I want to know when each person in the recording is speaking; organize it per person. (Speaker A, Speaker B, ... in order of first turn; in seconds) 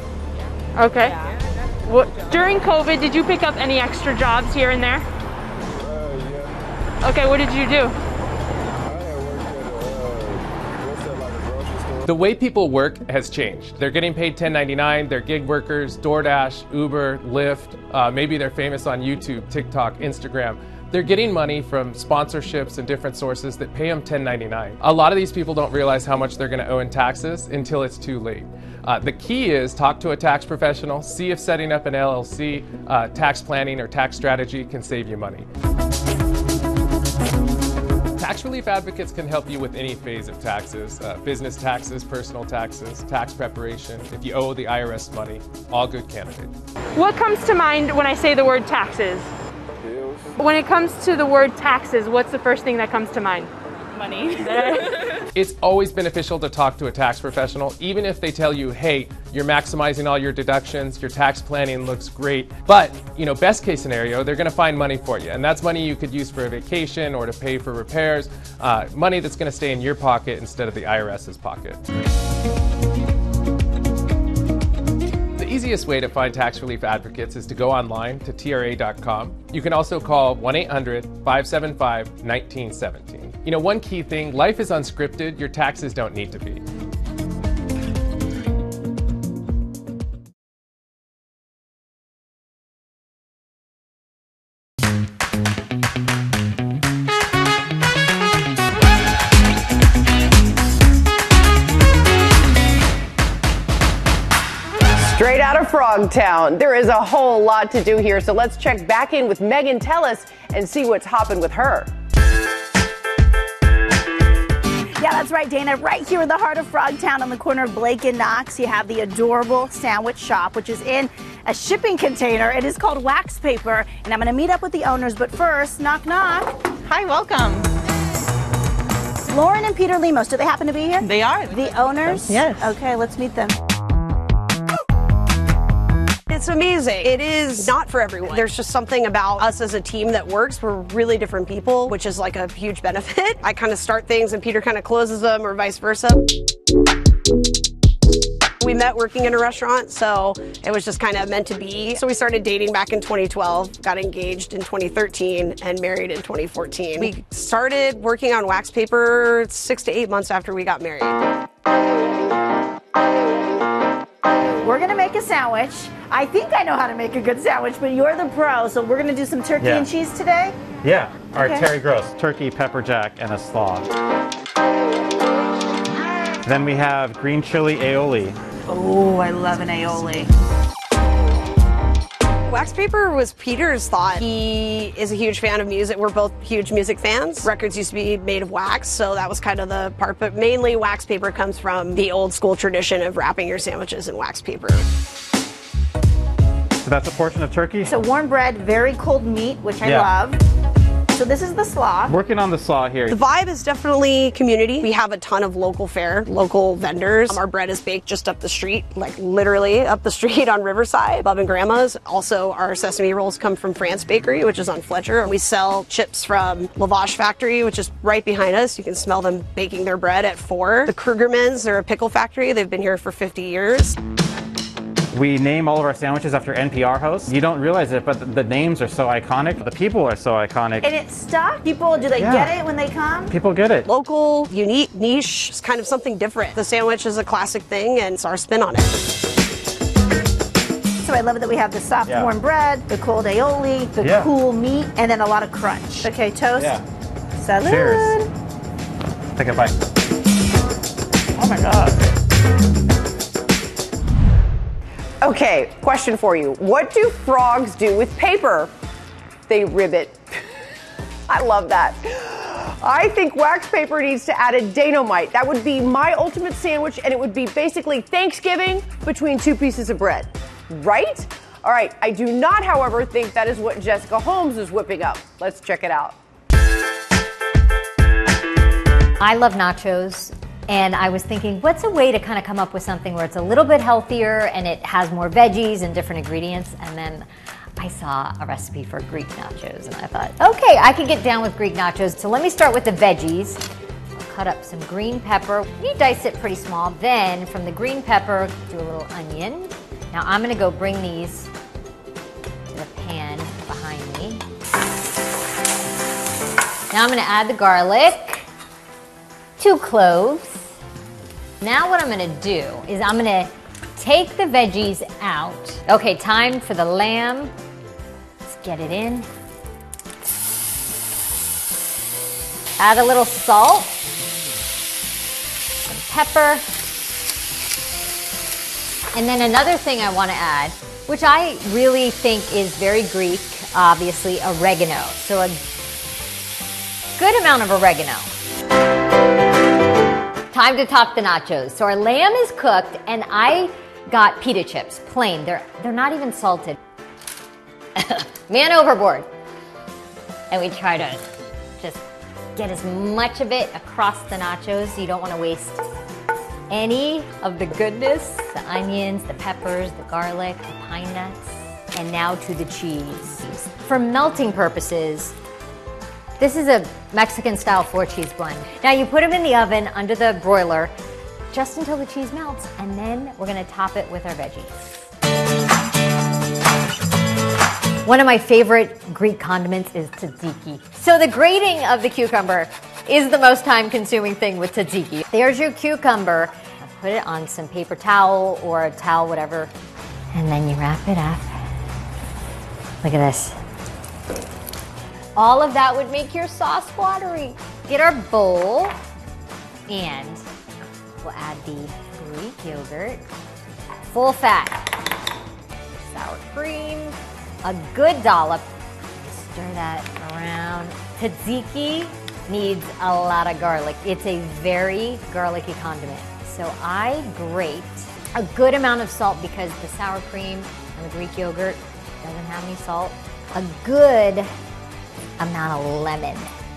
Speaker A: 0.8-1.1, 1.9-5.0, 7.0-7.9, 46.9-49.3, 50.4-54.9
Speaker B: 12.0-35.5, 38.2-46.5, 55.3-71.8, 75.3-86.6
Speaker C: 105.0-111.9, 255.2-258.7, 259.5-260.2, 261.3-276.1
Speaker D: 115.0-126.5, 129.2-133.6, 164.6-170.7, 171.3-171.7, 197.8-200.4, 201.1-202.1, 230.8-233.3, 241.0-246.8, 247.4-248.3
Speaker E: 126.8-127.7, 131.0-132.6, 137.0-137.7
Speaker F: 136.3-146.2, 148.6-161.2, 182.4-194.8, 203.1-223.9, 233.9-238.9
Speaker G: 169.6-169.9, 170.8-173.9, 176.4-178.4, 196.8-198.0, 199.8-200.1, 202.1-203.2, 225.1-230.9, 232.2-232.5, 233.3-233.9, 242.1-242.3, 244.0-244.3, 246.5-246.8, 247.6-248.3, 249.4-249.7, 251.3-252.0
Speaker H: 279.2-287.2, 287.8-293.6, 294.2-301.5, 302.7-304.4, 306.9-308.5, 309.6-310.7, 311.6-317.5, 318.4-319.3, 322.8-324.0, 325.9-326.6, 329.1-335.6, 337.2-338.3, 340.5-346.8, 347.9-349.3, 350.5-351.2, 352.6-355.8, 356.7-365.4, 366.4-370.9, 371.5-374.9, 378.0-389.7, 390.3-391.6, 393.0-393.6, 395.4-398.9, 399.9-400.4, 401.2-403.2, 404.1-405.0, 405.9-408.7, 409.2-424.5, 425.4-426.5